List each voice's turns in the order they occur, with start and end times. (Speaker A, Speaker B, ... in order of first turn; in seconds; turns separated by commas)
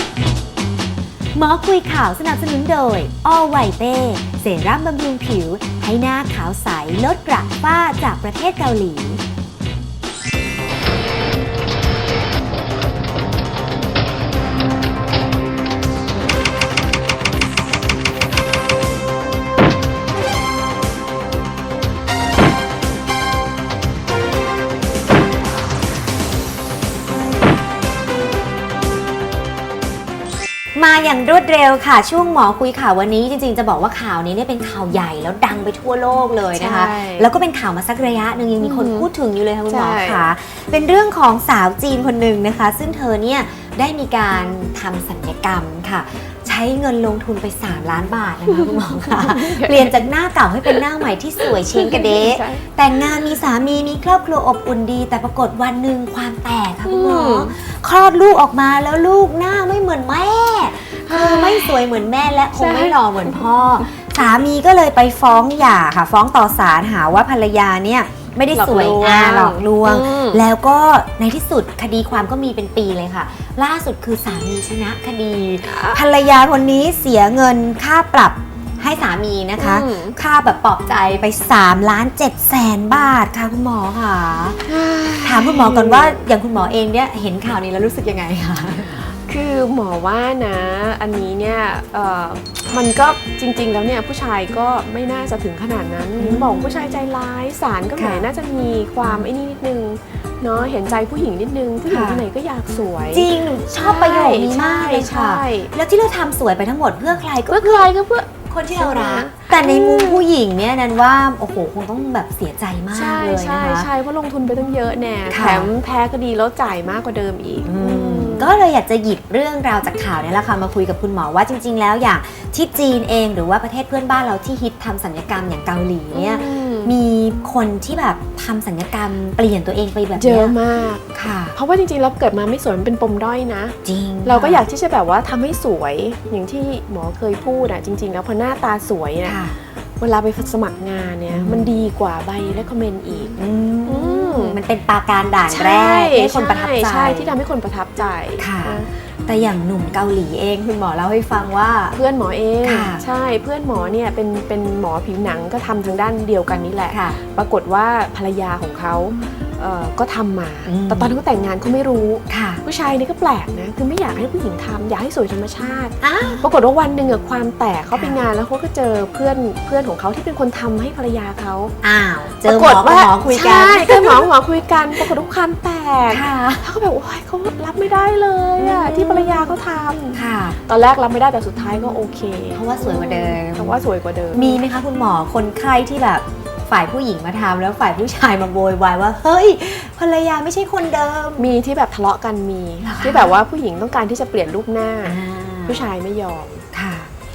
Speaker A: 1.3-9.2, Speaker A: 30.7-84.7, Speaker B: 36.5-37.3, Speaker B: 38.6-39.1, Speaker B: 39.7-40.3, Speaker B: 48.5-49.9, Speaker B: 51.4-52.7, Speaker B: 56.9-57.5, Speaker B: 61.0-61.9, Speaker B: 62.5-63.9, Speaker B: 68.5-70.4, Speaker B: 75.6-76.0, Speaker B: 79.6-80.2, Speaker B: 84.6-86.2, Speaker A: 85.2-89.1, Speaker B: 89.2-105.7, Speaker A: 96.2-96.9, Speaker A: 98.0-98.3, Speaker A: 99.0-99.3, Speaker A: 101.9-102.2, Speaker A: 103.1-107.9, Speaker B: 107.5-110.3, Speaker A: 108.5-113.9, Speaker B: 112.9-118.5, Speaker A: 115.3-115.7, Speaker A: 117.6-130.6, Speaker B: 126.1-127.0, Speaker B: 130.2-139.4, Speaker A: 131.1-131.6, Speaker A: 133.8-134.6, Speaker A: 139.2-139.6, Speaker B: 140.0-144.6, Speaker A: 141.3-141.7, Speaker A: 143.4-147.3, Speaker B: 145.5-148.9, Speaker A: 148.4-152.0, Speaker B: 151.9-171.7, Speaker A: 152.6-153.0, Speaker A: 156.9-157.2, Speaker A: 160.7-161.1, Speaker A: 162.3-162.6, Speaker A: 166.0-166.4, Speaker A: 167.9-168.2, Speaker A: 171.8-174.2, Speaker B: 172.4-184.7, Speaker A: 176.1-176.7, Speaker A: 178.6-179.6, Speaker A: 180.1-180.6, Speaker A: 182.5-183.7, Speaker A: 184.3-191.5, Speaker B: 191.4-196.6, Speaker A: 192.8-193.3, Speaker A: 195.0-195.9, Speaker A: 196.7-197.1